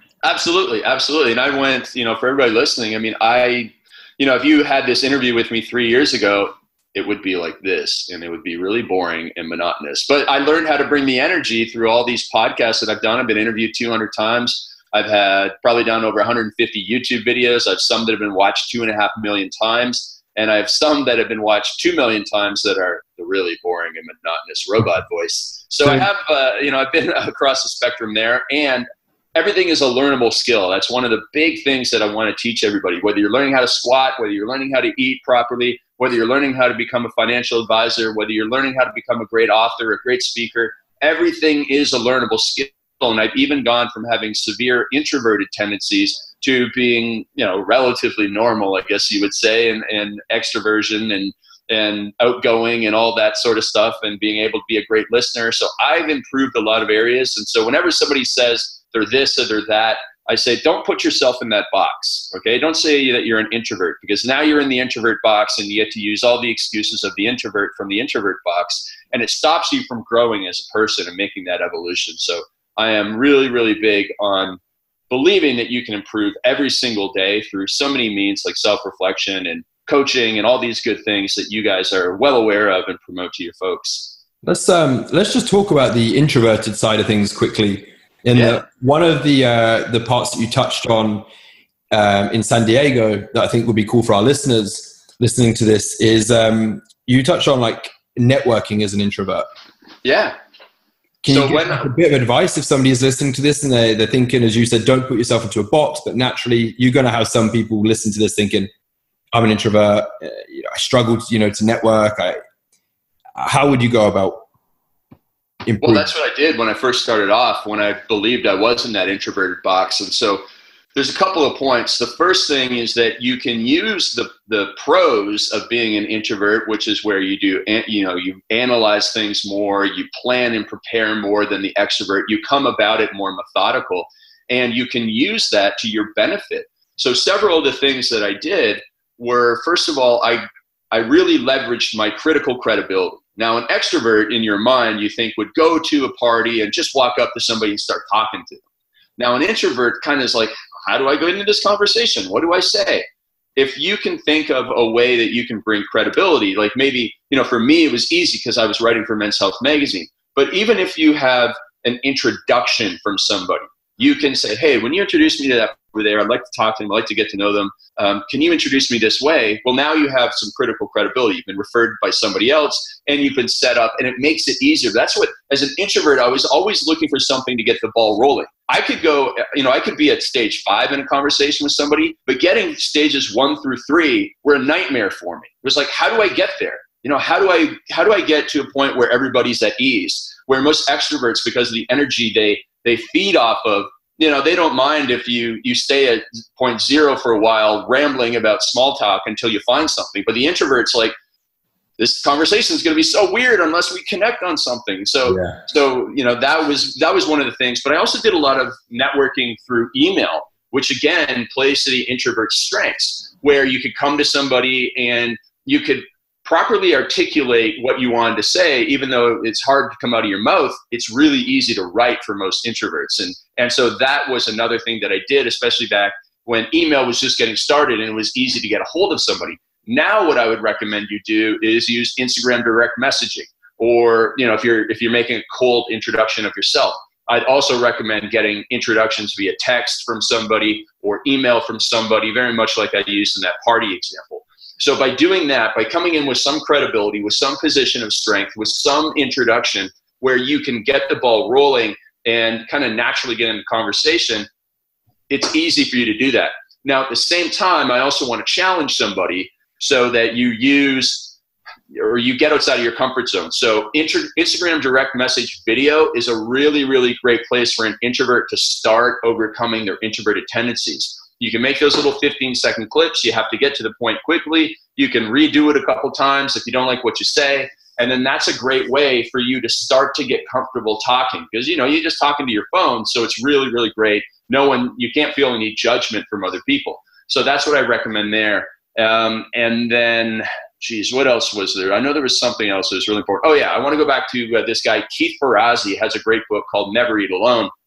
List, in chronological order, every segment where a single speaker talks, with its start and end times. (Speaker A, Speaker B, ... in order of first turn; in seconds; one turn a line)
Speaker A: 0.2-84.2
Speaker B: 84.4-91.2
Speaker A: 88.3-88.6
Speaker B: 91.9-99.5
Speaker A: 100.0-100.3
Speaker B: 101.2-108.7
Speaker A: 101.3-101.9
Speaker B: 109.3-112.4
Speaker B: 113.4-114.4
Speaker B: 115.6-116.1
Speaker A: 115.8-120.4
Speaker A: 120.9-148.6
Speaker A: 149.2-201.1
Speaker A: 202.0-254.5
Speaker B: 205.2-205.6
Speaker A: 255.3-261.4
Speaker A: 261.9-297.7